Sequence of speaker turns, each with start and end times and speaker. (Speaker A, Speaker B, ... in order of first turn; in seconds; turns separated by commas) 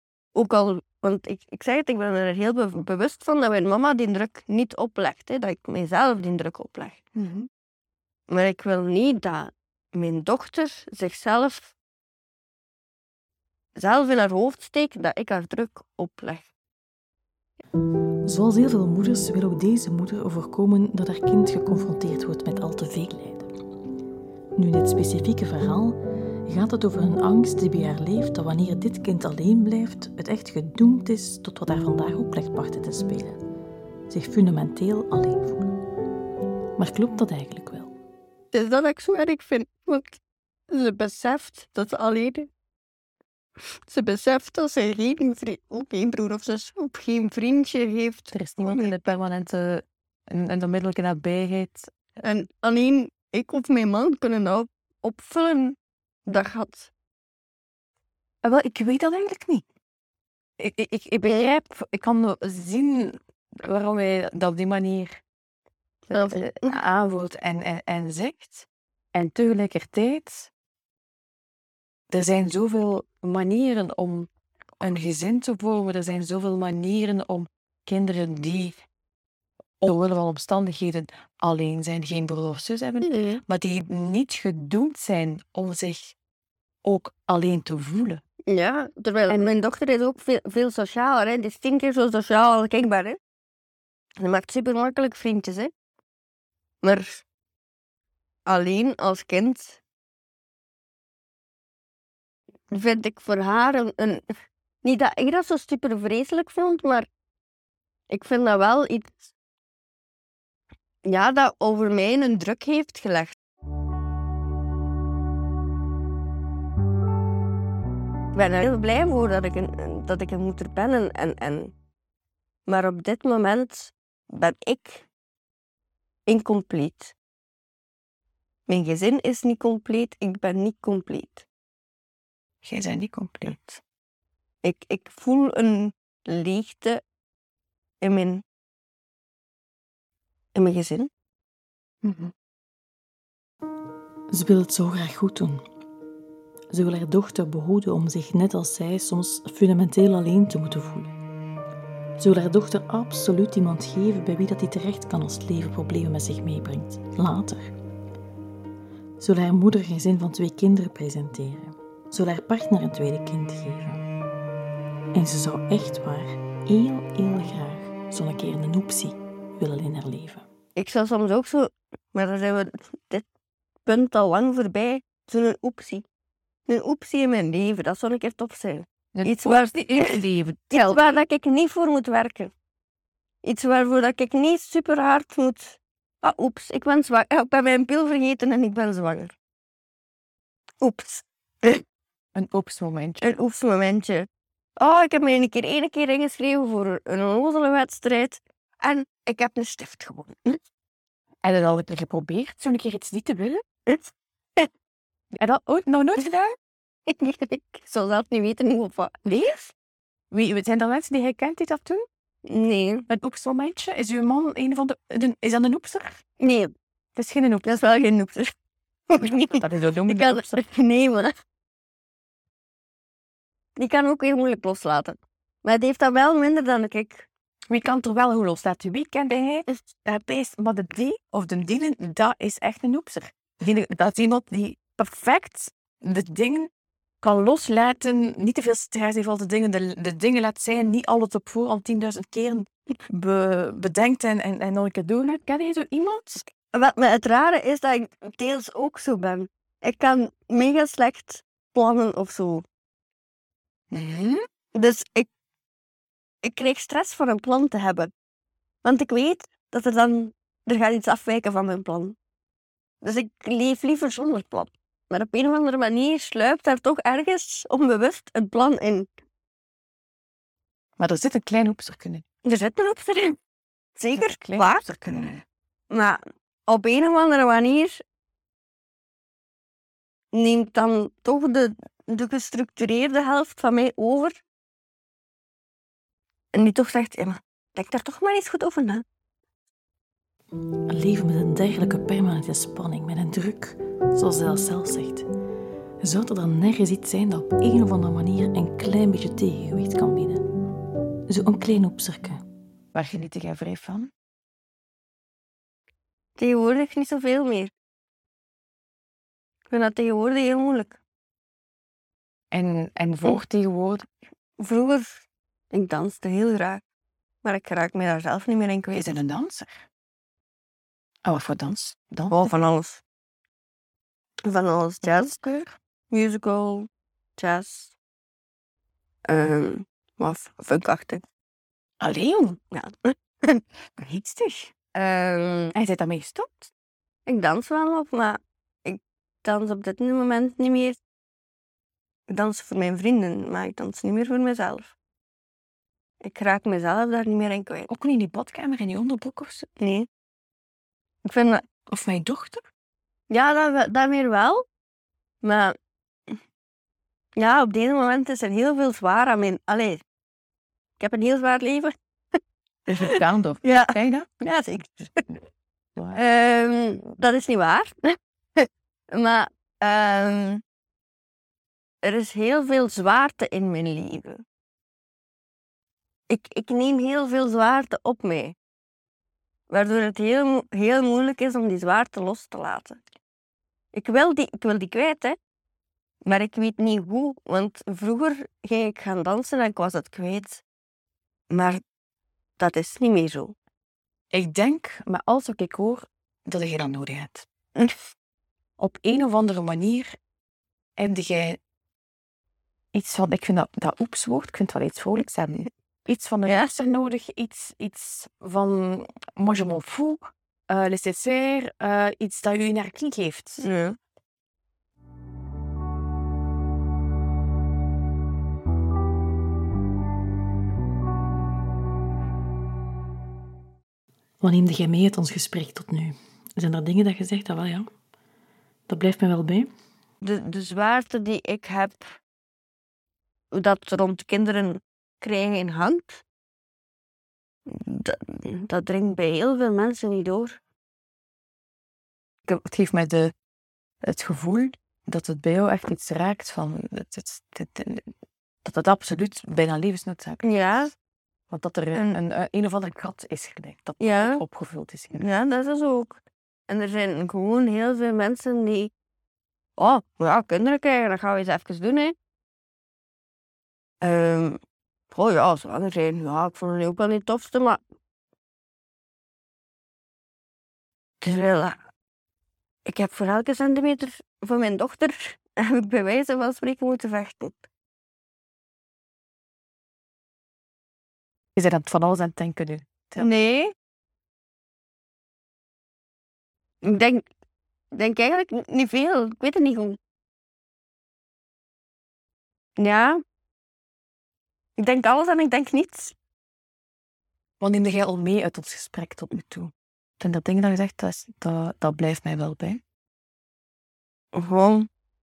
Speaker A: 0.3-7.0, Speaker B: 7.2-7.5, Speaker A: 8.3-11.7, Speaker A: 13.8-16.5, Speaker C: 18.3-23.5, Speaker C: 24.6-33.4, Speaker C: 34.1-35.7, Speaker C: 36.8-37.9, Speaker A: 38.5-40.2, Speaker A: 40.7-42.5, Speaker A: 43.9-48.9, Speaker B: 48.3-51.9, Speaker A: 52.2-56.9, Speaker B: 58.4-59.6, Speaker B: 60.6-65.2, Speaker A: 66.1-66.8, Speaker B: 66.1-70.5, Speaker B: 72.1-74.3, Speaker B: 74.8-78.8, Speaker B: 79.8-86.2, Speaker A: 83.0-83.4, Speaker B: 86.8-88.2, Speaker A: 88.5-93.2, Speaker A: 94.2-95.7, Speaker A: 96.8-97.2, Speaker A: 98.5-99.8, Speaker A: 102.7-104.2, Speaker A: 104.8-107.1, Speaker A: 108.1-109.3, Speaker A: 111.0-113.4, Speaker A: 118.3-121.7, Speaker A: 122.7-125.1, Speaker A: 126.3-127.1, Speaker A: 128.7-131.5, Speaker B: 132.6-133.8, Speaker A: 134.6-137.0, Speaker A: 138.0-138.4, Speaker A: 140.6-141.1, Speaker B: 142.0-142.3, Speaker C: 144.3-145.6, Speaker C: 146.7-151.1, Speaker C: 152.2-157.7, Speaker C: 159.2-164.0, Speaker C: 165.1-170.4, Speaker A: 170.8-173.2, Speaker A: 173.9-176.1, Speaker A: 176.7-180.2, Speaker B: 179.2-181.0, Speaker A: 180.7-182.5, Speaker A: 183.4-189.3, Speaker A: 190.8-191.8, Speaker B: 192.3-193.2, Speaker A: 193.2-200.6, Speaker B: 201.4-203.6, Speaker A: 203.9-204.7, Speaker B: 205.3-206.6, Speaker A: 207.1-209.7, Speaker B: 210.3-212.1, Speaker A: 212.4-213.1, Speaker B: 213.1-216.2, Speaker A: 216.4-216.7, Speaker B: 217.2-217.7, Speaker A: 217.6-218.5, Speaker A: 219.1-221.3, Speaker B: 219.5-220.6, Speaker A: 223.8-227.3, Speaker B: 227.7-236.7, Speaker B: 237.2-246.5, Speaker A: 246.7-252.6, Speaker B: 253.9-254.4, Speaker A: 254.7-255.3, Speaker A: 256.4-258.1, Speaker A: 258.8-262.2, Speaker A: 263.0-269.1, Speaker B: 271.0-272.2, Speaker A: 272.4-273.4, Speaker A: 274.0-275.3, Speaker B: 274.2-275.4, Speaker A: 275.9-278.0, Speaker A: 280.3-284.4, Speaker A: 286.5-289.1, Speaker C: 290.9-295.3, Speaker C: 296.0-300.5, Speaker C: 301.3-302.4, Speaker B: 302.9-304.1, Speaker A: 306.4-307.7, Speaker A: 309.7-311.0, Speaker B: 312.5-314.1, Speaker A: 314.6-316.8, Speaker A: 317.4-319.1, Speaker B: 318.9-319.9, Speaker B: 321.2-322.5, Speaker A: 322.3-323.0, Speaker A: 324.4-327.9, Speaker A: 329.3-331.2, Speaker B: 332.0-332.6, Speaker A: 332.7-333.6, Speaker B: 334.0-334.5, Speaker A: 334.9-335.7, Speaker B: 335.7-336.7, Speaker A: 337.3-341.0, Speaker A: 342.3-344.9, Speaker A: 346.2-347.9, Speaker B: 347.9-349.7, Speaker A: 349.8-350.1, Speaker A: 351.2-351.7, Speaker B: 351.9-352.6, Speaker A: 353.3-354.6, Speaker A: 355.4-355.8, Speaker A: 357.4-360.0, Speaker A: 361.0-365.4, Speaker B: 362.9-364.3, Speaker A: 366.1-370.6, Speaker A: 372.0-374.4, Speaker A: 376.3-378.6, Speaker A: 379.7-383.0, Speaker A: 383.9-385.4, Speaker A: 386.3-390.6, Speaker A: 391.5-391.8, Speaker A: 392.6-393.5, Speaker B: 394.3-397.5, Speaker B: 398.8-400.2, Speaker B: 401.0-401.6, Speaker B: 402.9-413.7, Speaker A: 406.5-406.7, Speaker A: 413.6-414.0, Speaker C: 424.4-427.9, Speaker C: 428.9-429.7, Speaker A: 430.2-432.2, Speaker A: 433.5-436.2, Speaker A: 437.7-440.6, Speaker B: 442.5-443.3, Speaker B: 444.0-448.1, Speaker B: 448.6-450.4, Speaker A: 450.4-450.9, Speaker B: 451.5-455.2, Speaker A: 451.9-452.2, Speaker A: 454.0-454.4, Speaker A: 455.1-458.9, Speaker A: 459.8-462.1, Speaker A: 464.0-464.6, Speaker A: 465.1-467.8, Speaker A: 471.2-471.8, Speaker A: 472.9-477.6, Speaker B: 481.6-483.3, Speaker A: 483.2-483.7, Speaker A: 486.8-487.3, Speaker A: 487.9-490.0, Speaker A: 492.8-493.2, Speaker A: 494.8-496.1, Speaker B: 497.6-502.8, Speaker A: 504.3-504.9